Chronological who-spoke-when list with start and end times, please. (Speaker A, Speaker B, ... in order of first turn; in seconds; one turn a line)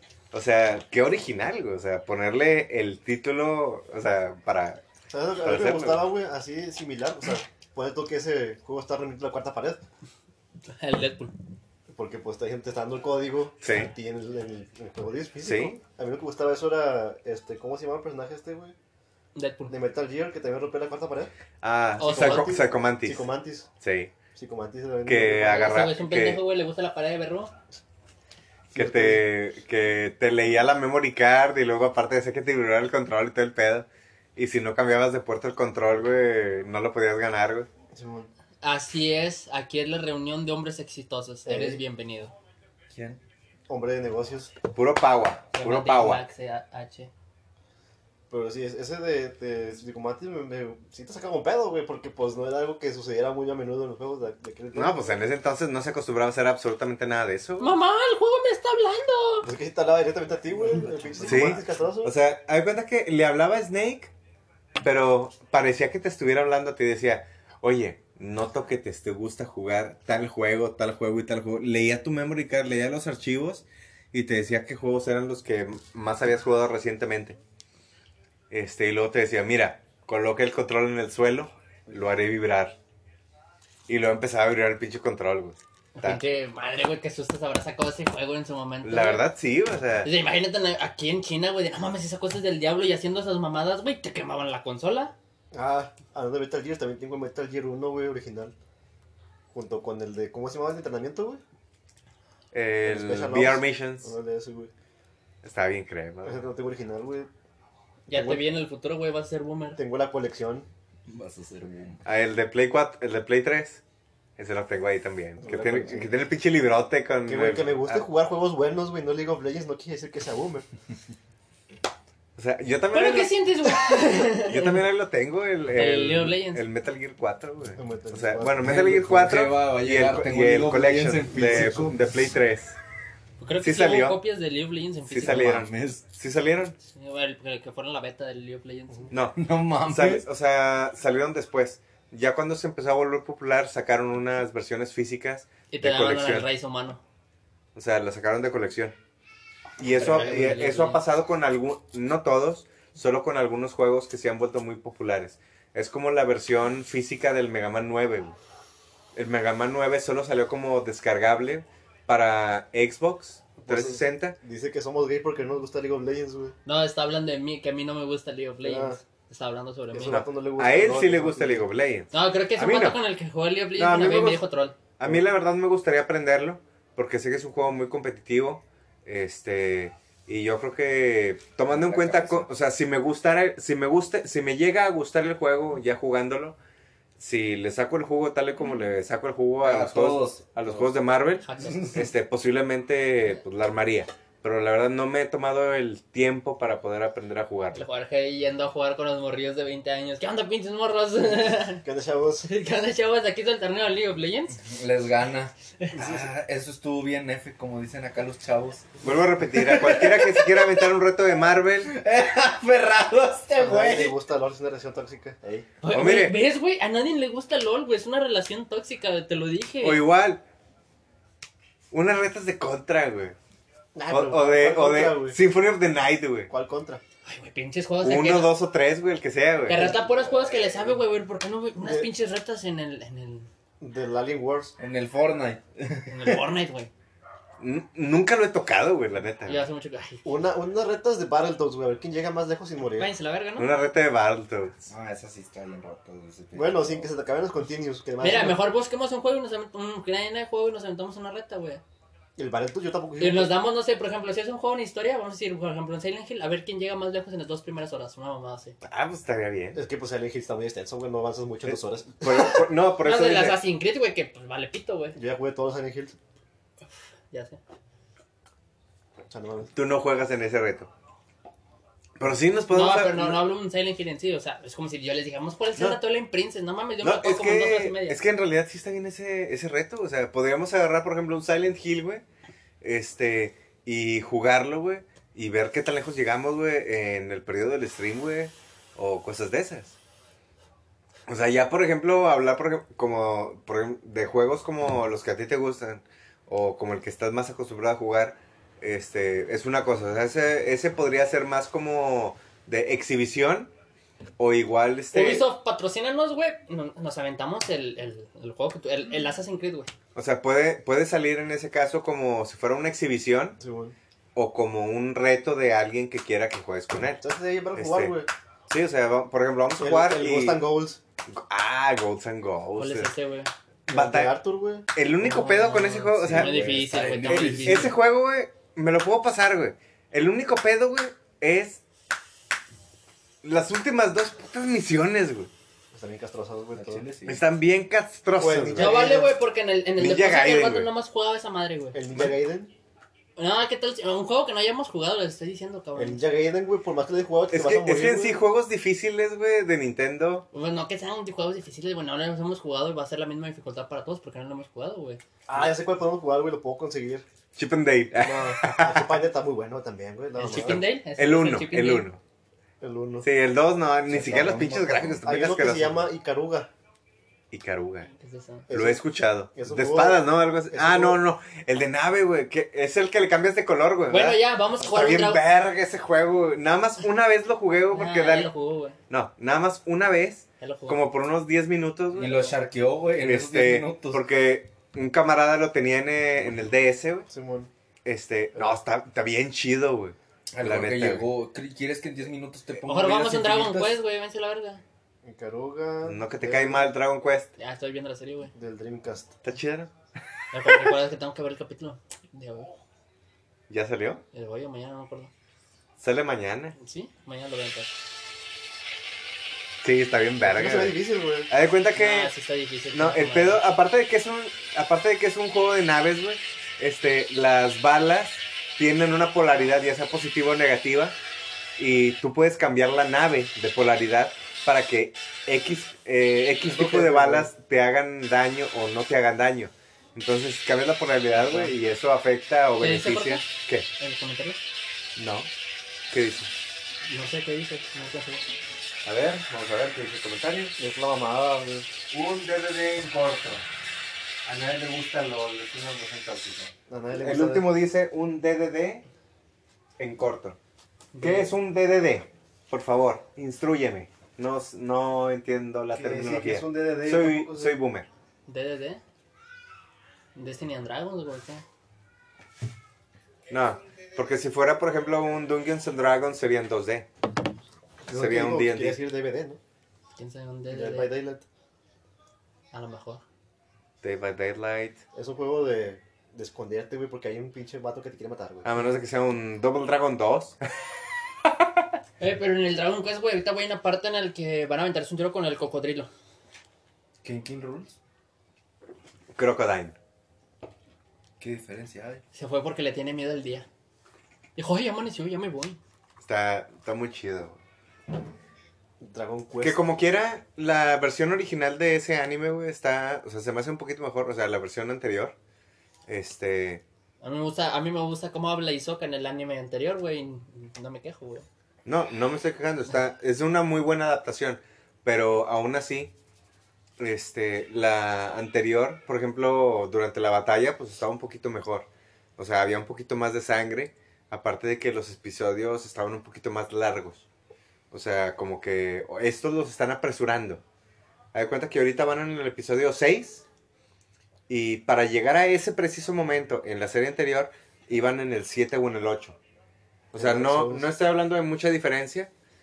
Speaker A: 0.3-4.8
Speaker B: 5.1-9.8
Speaker A: 5.4-6.0
Speaker C: 10.7-11.3
Speaker B: 11.9-18.8
Speaker A: 13.6-13.9
Speaker A: 15.4-15.8
Speaker C: 19.3-19.7
Speaker B: 19.7-21.3
Speaker A: 21.6-23.3
Speaker C: 22.0-22.6
Speaker B: 22.0-23.7
Speaker A: 23.8-24.1
Speaker B: 24.3-25.7
Speaker A: 25.0-26.4
Speaker C: 25.4-27.5
Speaker B: 28.7-29.3
Speaker A: 28.7-37.7
Speaker B: 37.9-38.3
Speaker C: 38.6-42.3
Speaker B: 41.4-41.8
Speaker D: 42.9-43.2
Speaker B: 43.7-44.5
Speaker A: 44.7-46.2
Speaker C: 45.5-47.1
Speaker B: 48.3-55.2
Speaker A: 54.7-57.7
Speaker C: 57.6-59.5
Speaker B: 59.4-62.1
Speaker D: 61.2-61.5
Speaker A: 61.2-64.1
Speaker A: 64.8-77.4
Speaker A: 78.5-82.8
Speaker A: 83.9-86.2
Speaker C: 86.0-89.2
Speaker A: 88.8-90.1
Speaker C: 90.0-95.1
Speaker B: 95.5-98.5
Speaker B: 99.5-101.4
Speaker A: 102.5-104.1
Speaker B: 102.8-104.7
Speaker A: 105.4-106.5
Speaker B: 106.2-107.3
Speaker B: 108.1-108.4
Speaker C: 108.1-109.8
Speaker B: 109.8-110.7
Speaker D: 111.1-112.0
Speaker A: 112.0-113.8
Speaker A: 114.4-118.0
Speaker B: 115.4-116.1
Speaker B: 117.3-120.7
Speaker A: 122.3-123.3
Speaker C: 122.9-124.8
Speaker A: 124.3-132.8
Speaker C: 125.7-126.7
Speaker B: 127.8-128.9
Speaker D: 128.6-132.3
Speaker C: 133.4-135.6
Speaker A: 133.6-134.2
Speaker A: 135.1-136.8
Speaker D: 135.1-136.0
Speaker C: 136.9-139.1
Speaker A: 139.1-146.5
Speaker D: 139.3-140.2
Speaker C: 145.7-147.0
Speaker A: 147.7-148.9
Speaker A: 149.8-158.4
Speaker C: 149.9-151.0
Speaker B: 150.0-150.6
Speaker A: 159.1-164.3
Speaker B: 163.6-166.6
Speaker C: 166.7-170.2
Speaker B: 168.6-169.0
Speaker B: 169.9-171.7
Speaker A: 170.1-173.0
Speaker C: 172.1-174.8
Speaker A: 173.8-174.4
Speaker A: 175.0-186.6
Speaker D: 181.7-182.5
Speaker A: 187.2-197.8
Speaker D: 189.6-190.9
Speaker C: 191.4-192.0
Speaker D: 191.6-192.0
Speaker C: 197.7-201.8
Speaker B: 201.8-202.5
Speaker C: 202.4-204.6
Speaker D: 204.6-210.9
Speaker C: 205.8-206.2
Speaker A: 209.0-211.9
Speaker D: 211.8-214.1
Speaker B: 213.6-215.7
Speaker C: 215.8-220.0
Speaker A: 215.9-216.4
Speaker A: 219.8-220.4
Speaker A: 221.9-223.3
Speaker B: 223.9-225.4
Speaker A: 224.1-226.5
Speaker B: 226.5-227.0
Speaker C: 227.2-228.5
Speaker A: 228.0-229.9
Speaker C: 229.7-233.5
Speaker B: 229.7-230.2
Speaker B: 231.8-232.1
Speaker B: 233.8-234.7
Speaker D: 234.8-236.4
Speaker C: 236.1-236.9
Speaker A: 237.6-239.7
Speaker C: 239.4-240.2
Speaker B: 240.2-243.1
Speaker C: 243.0-243.7
Speaker A: 243.6-244.8
Speaker D: 244.8-247.1
Speaker B: 246.5-248.7
Speaker C: 248.2-251.8
Speaker B: 252.3-253.5
Speaker C: 253.2-258.8
Speaker A: 258.8-259.8
Speaker B: 259.7-262.6
Speaker A: 261.7-263.6
Speaker C: 263.0-265.2
Speaker B: 265.1-266.1
Speaker C: 267.3-267.6
Speaker B: 269.3-269.7
Speaker A: 269.7-270.9
Speaker A: 272.2-273.4
Speaker C: 272.7-278.2
Speaker A: 277.0-282.2
Speaker A: 282.8-289.9
Speaker A: 291.3-303.7
Speaker A: 304.4-305.5
Speaker C: 305.1-309.9
Speaker A: 310.1-313.6
Speaker B: 313.6-313.9
Speaker A: 314.3-317.2
Speaker B: 317.2-318.3
Speaker A: 317.8-318.1
Speaker A: 318.7-320.6
Speaker B: 319.8-321.0
Speaker A: 321.3-323.1
Speaker C: 322.8-323.5
Speaker A: 323.9-324.3
Speaker B: 323.9-324.9
Speaker A: 324.9-326.5
Speaker C: 325.2-327.9
Speaker D: 326.2-327.9
Speaker A: 327.3-331.8
Speaker A: 333.4-335.5
Speaker B: 335.9-337.1
Speaker D: 336.7-337.4
Speaker A: 337.2-339.0
Speaker B: 338.4-339.3
Speaker C: 338.8-342.0
Speaker A: 340.0-340.9
Speaker B: 341.9-342.7
Speaker C: 343.4-346.2
Speaker B: 345.9-348.4
Speaker A: 347.5-350.4
Speaker C: 350.5-355.7
Speaker B: 355.5-357.2
Speaker A: 357.6-359.2
Speaker B: 358.2-360.8
Speaker C: 360.3-362.1
Speaker A: 360.4-362.2
Speaker B: 362.8-363.3
Speaker A: 363.2-366.1
Speaker D: 364.1-365.3
Speaker B: 365.2-366.7
Speaker A: 367.5-368.1
Speaker C: 368.1-368.7
Speaker B: 368.7-371.2
Speaker A: 368.7-378.5
Speaker C: 374.1-375.4
Speaker C: 377.9-379.0
Speaker A: 379.1-382.4
Speaker C: 380.6-381.0
Speaker D: 382.1-384.2
Speaker A: 383.2-387.3
Speaker B: 387.3-387.7
Speaker A: 388.0-391.2
Speaker D: 390.5-393.9
Speaker C: 392.9-394.8
Speaker B: 395.2-396.9
Speaker A: 396.0-397.5
Speaker C: 397.6-398.5
Speaker B: 398.5-399.4
Speaker A: 399.4-399.9
Speaker C: 400.5-402.7
Speaker A: 403.7-404.2
Speaker C: 404.3-405.3
Speaker A: 406.0-406.8
Speaker C: 406.8-407.9
Speaker A: 409.8-411.0
Speaker B: 410.4-411.5
Speaker A: 411.5-412.3
Speaker C: 411.9-413.6
Speaker A: 412.9-421.2
Speaker A: 421.8-433.9
Speaker B: 426.6-427.5
Speaker B: 431.3-431.7
Speaker C: 432.8-434.6
Speaker A: 435.1-435.5
Speaker A: 436.1-436.5
Speaker C: 437.1-438.4
Speaker A: 439.0-440.7
Speaker B: 440.8-441.9
Speaker A: 442.1-443.6
Speaker A: 444.4-449.1
Speaker B: 446.9-447.7
Speaker A: 450.0-450.6
Speaker C: 451.1-451.5
Speaker A: 451.2-458.1
Speaker B: 455.9-457.8
Speaker C: 458.5-459.0
Speaker C: 460.3-461.6
Speaker A: 463.5-467.1
Speaker B: 468.0-469.6
Speaker A: 468.1-469.0
Speaker C: 470.1-471.1
Speaker B: 470.7-471.4
Speaker C: 472.7-473.2
Speaker A: 474.0-475.0
Speaker B: 475.1-478.8
Speaker A: 478.6-480.6
Speaker C: 482.2-486.1
Speaker D: 487.2-487.9
Speaker A: 489.3-489.9
Speaker D: 491.4-492.2
Speaker C: 492.3-493.7
Speaker C: 494.6-495.8
Speaker A: 496.2-497.6
Speaker B: 499.0-499.9
Speaker A: 499.6-505.3
Speaker A: 506.1-506.8
Speaker C: 507.2-511.5
Speaker A: 511.8-516.1
Speaker A: 517.0-527.2
Speaker A: 527.9-530.6
Speaker A: 531.3-533.4
Speaker A: 534.5-539.4
Speaker A: 540.1-542.3
Speaker B: 540.1-540.9